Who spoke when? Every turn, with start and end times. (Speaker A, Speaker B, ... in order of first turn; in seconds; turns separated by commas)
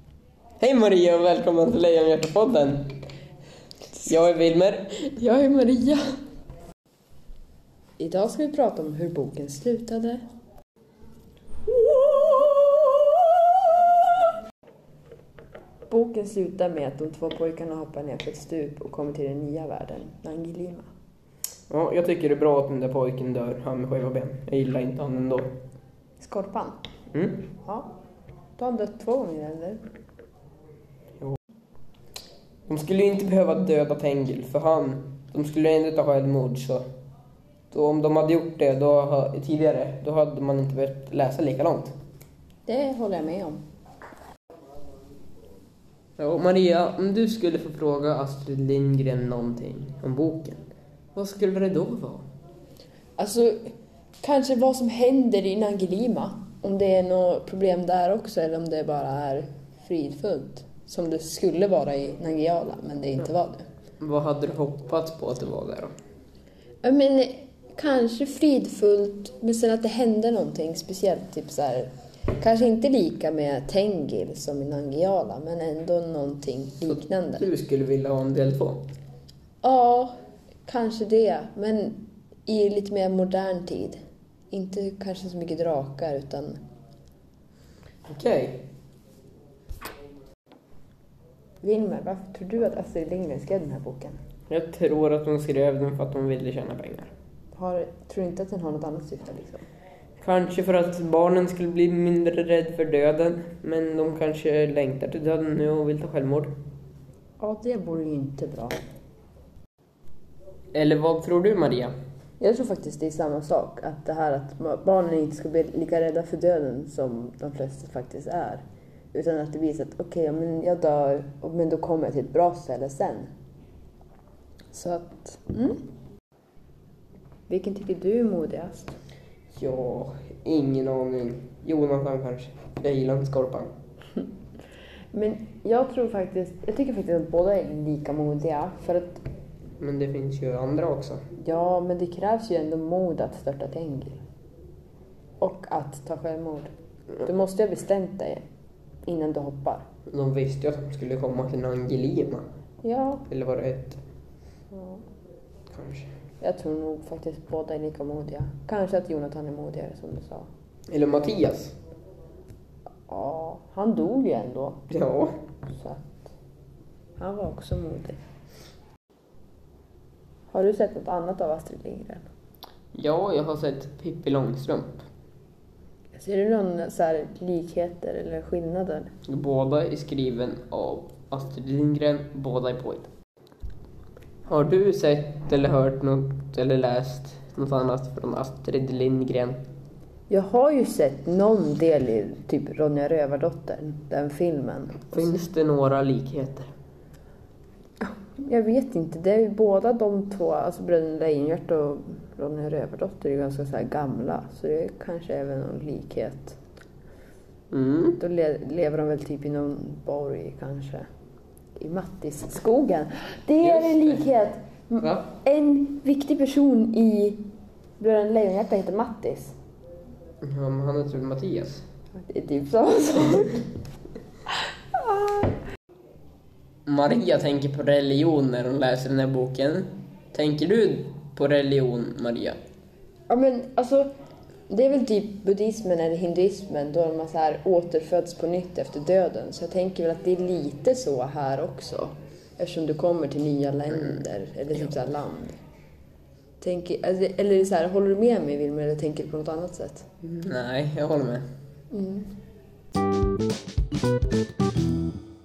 Speaker A: 0.6-2.9, Speaker A: 4.0-5.2, Speaker B: 5.2-6.0, Speaker B: 8.0-10.2, Speaker B: 11.9-13.2, Speaker B: 15.9-20.9, Speaker A: 21.7-25.5, Speaker B: 26.2-26.8, Speaker A: 27.1-27.4, Speaker B: 28.6-29.8, Speaker A: 32.6-36.8, Speaker A: 37.7-41.9, Speaker B: 42.6-43.6, Speaker A: 46.2-50.6, Speaker A: 51.1-52.2, Speaker B: 53.2-53.7, Speaker B: 54.2-63.6, Speaker A: 64.0-65.9, Speaker B: 66.8-77.5, Speaker A: 76.9-78.8, Speaker B: 79.6-80.1, Speaker B: 80.7-84.0, Speaker B: 84.5-86.6, Speaker A: 88.1-88.6, Speaker B: 91.6-94.2, Speaker A: 94.5-97.1, Speaker B: 97.5-99.7, Speaker A: 100.2-106.5, Speaker B: 107.4-108.8, Speaker A: 110.7-111.9, Speaker B: 112.4-123.3, Speaker B: 124.7-125.8, Speaker B: 127.5-128.9, Speaker A: 129.5-133.7, Speaker B: 135.1-139.2, Speaker A: 139.8-141.2, Speaker B: 141.4-144.2, Speaker B: 145.4-146.7, Speaker B: 147.2-148.4, Speaker B: 149.0-149.8, Speaker A: 150.1-152.4, Speaker B: 152.8-153.2, Speaker A: 153.3-154.0, Speaker B: 154.7-155.0, Speaker A: 155.7-156.1, Speaker B: 156.4-160.5, Speaker A: 160.9-161.8, Speaker B: 163.1-164.8, Speaker A: 164.9-165.4, Speaker B: 165.7-166.2, Speaker B: 167.2-168.2, Speaker B: 170.5-172.3, Speaker A: 172.9-175.1, Speaker B: 176.1-179.1, Speaker A: 179.3-183.1, Speaker A: 184.5-189.6, Speaker B: 190.3-195.2, Speaker A: 195.1-196.7, Speaker B: 198.0-206.6, Speaker A: 207.7-208.2, Speaker B: 208.2-211.1, Speaker B: 211.8-217.4, Speaker A: 213.6-214.2, Speaker A: 215.0-215.2, Speaker B: 218.0-219.5, Speaker A: 220.4-221.8, Speaker B: 222.1-223.7, Speaker B: 225.0-225.5, Speaker A: 226.8-232.6, Speaker B: 233.3-234.1, Speaker B: 234.7-245.6, Speaker B: 246.6-250.1, Speaker A: 250.2-251.4, Speaker B: 251.9-252.3